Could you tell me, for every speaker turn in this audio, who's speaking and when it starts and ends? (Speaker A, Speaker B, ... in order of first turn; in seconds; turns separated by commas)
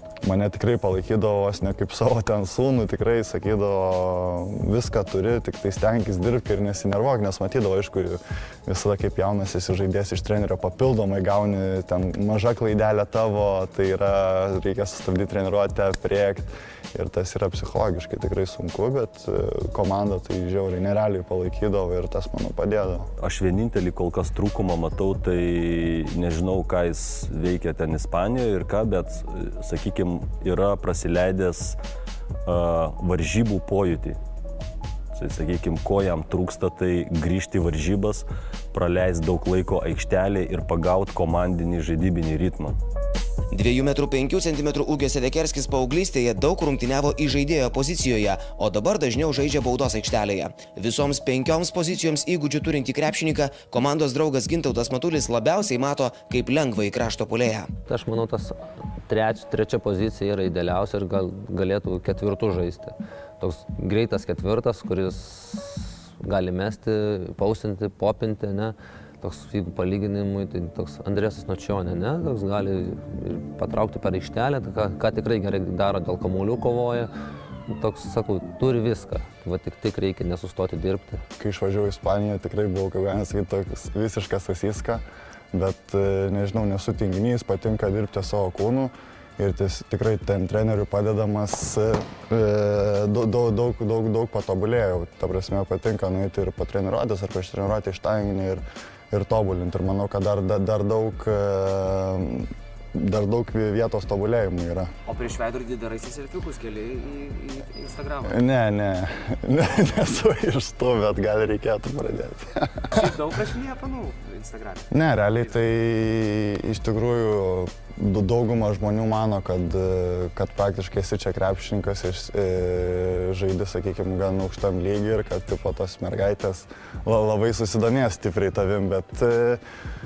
Speaker A: 0.2-23.1, Speaker B: 23.2-31.8, Speaker B: 32.5-34.2, Speaker B: 35.1-42.8, Speaker C: 43.5-57.7, Speaker D: 57.9-77.1, Speaker D: 77.7-81.2, Speaker A: 81.4-104.9, Speaker E: 105.1-108.3, Speaker A: 108.2-113.0, Speaker E: 113.0-114.8, Speaker A: 114.9-129.6